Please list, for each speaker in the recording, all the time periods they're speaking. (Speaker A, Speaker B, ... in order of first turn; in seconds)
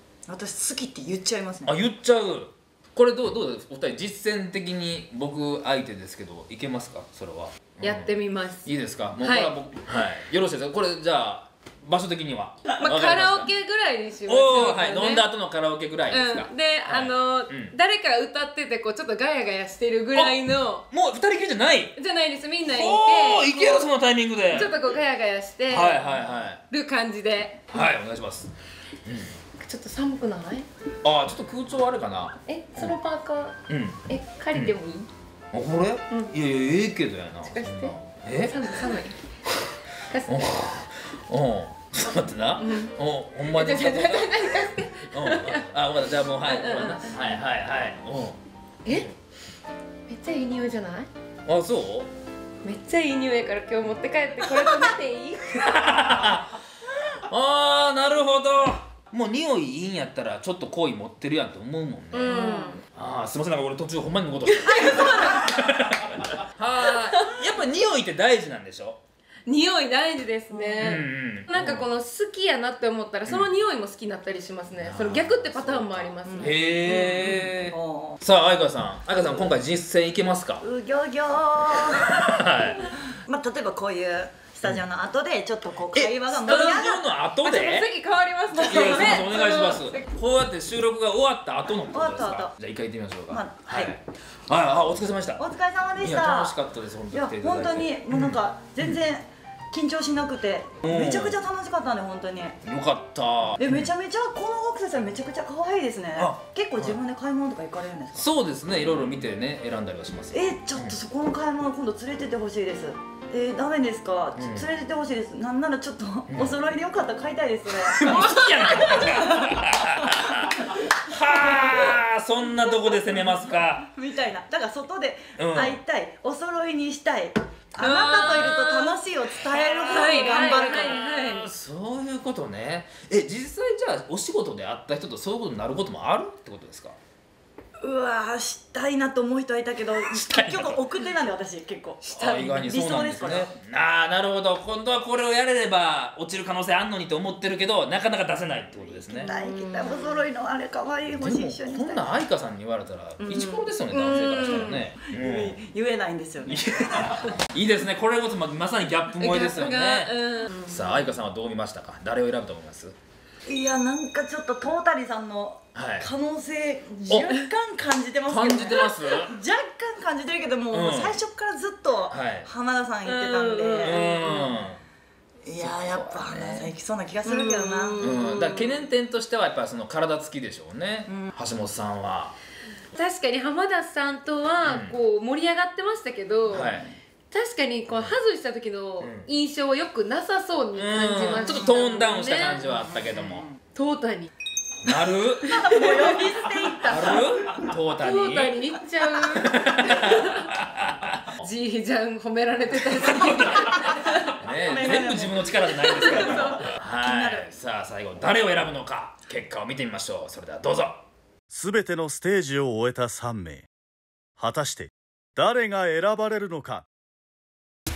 Speaker A: 0.3-1.8, 62.3-62.8, 70.5-70.9, 76.2-78.2, 80.6-82.1, 83.2-87.0, 88.8-89.1, 91.9-92.5, 93.3-94.0, 95.4-96.6, 97.1-102.6, 103.6-108.3, 110.3-119.5, 121.4-121.9, 123.9-131.0, 137.8-143.5, 149.2-152.1, 154.4-156.6, 163.5-174.0, 175.4-178.1, 181.1-181.3, 186.5-186.9, 192.7-193.6, 195.5-197.3, 204.5-207.5
Speaker B: 1.7-13.5, 14.3-17.7, 20.9-21.9, 22.7-24.7, 25.7-26.6, 27.7-28.5, 29.1-29.4, 31.0-33.0, 33.7-34.0, 35.5-38.7, 40.3-44.5, 45.1-48.4, 51.5-52.1, 55.6-56.5, 57.3-69.0, 70.8-71.9, 73.3-73.5, 74.8-77.7, 78.2-80.6, 82.1-83.0, 85.9-87.9, 88.5-95.4, 96.0-99.0, 100.8-101.4, 102.6-103.9, 106.2-107.0, 108.2-111.0, 114.4-114.7, 116.3-116.6, 117.8-123.9, 125.4-125.8, 129.6-137.0, 140.1-140.8, 142.1-149.3, 151.1-155.6, 156.5-160.1, 160.7-163.0, 165.8-166.1, 168.3-169.3, 170.7-171.2, 172.1-172.5, 173.8-174.8, 175.5-176.7, 178.0-182.3, 184.6-184.9, 186.5-186.9, 187.9-188.2, 189.0-189.3, 190.8-193.5, 194.8-195.6, 196.9-198.6, 199.3-201.3, 204.4-211.0
Speaker C: 7.8-9.5, 12.8-15.3, 16.1-20.9, 22.0-23.9, 24.5-27.9, 29.6-30.7, 32.5-33.6, 34.1-35.1, 37.4-39.2, 40.1-40.4, 42.6-42.9, 43.5-45.6, 46.4-47.1, 48.9-49.1, 50.1-51.1, 52.6-55.6, 62.1-62.8, 64.6-65.5, 66.8-67.4, 69.5-77.7, 86.5-86.9, 87.4-90.1, 118.4-118.9, 127.8-129.0, 129.8-131.5, 142.1-142.7, 149.2-150.2, 153.2-154.9, 159.2-161.0, 173.0-174.6, 177.3-178.8, 182.9-186.7, 187.3-192.7, 193.7-194.3, 195.4-197.2, 198.0-200.5, 201.4-204.4, 205.8-206.7
Speaker D: 211.5-213.7, 214.4-216.9